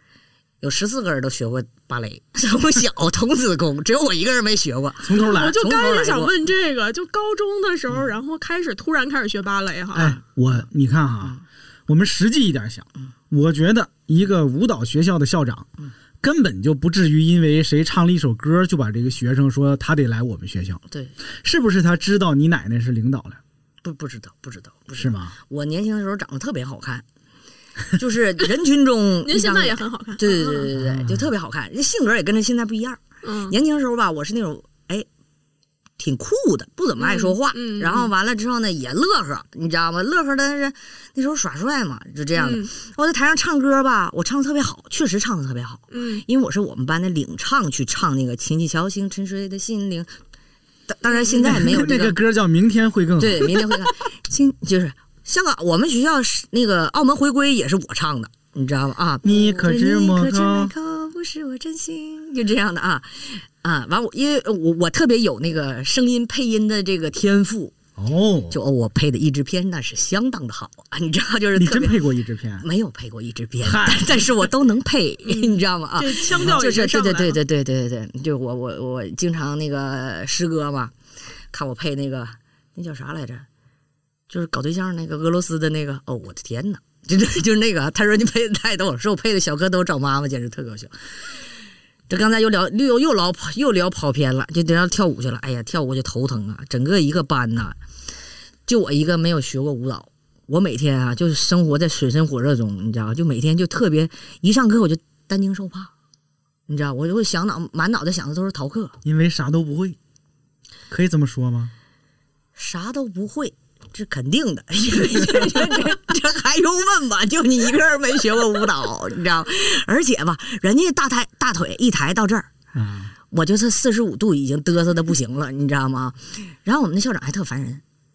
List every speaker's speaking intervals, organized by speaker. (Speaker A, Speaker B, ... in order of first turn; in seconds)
Speaker A: 0.6-6.3, 23.8-27.1, 27.9-35.1, 36.0-50.1, 50.9-52.2, 53.2-67.8, 68.5-72.0, 72.6-80.9, 81.5-83.5, 84.3-90.9, 92.1-97.8, 98.7-105.9, 106.7-109.0, 112.6-122.5, 123.3-127.8
Speaker B: 5.0-5.6, 9.9-20.8, 21.4-23.4, 24.9-25.4, 30.8-31.3, 51.4-53.6, 59.2-60.7, 68.0-68.6, 71.5-72.7, 73.6-74.5, 109.0-110.0, 110.9-111.7, 122.7-123.1
Speaker C: 5.2-10.2, 29.2-30.7, 33.2-33.5, 37.0-38.1, 42.4-42.7, 45.9-46.2, 51.2-51.4, 75.2-77.4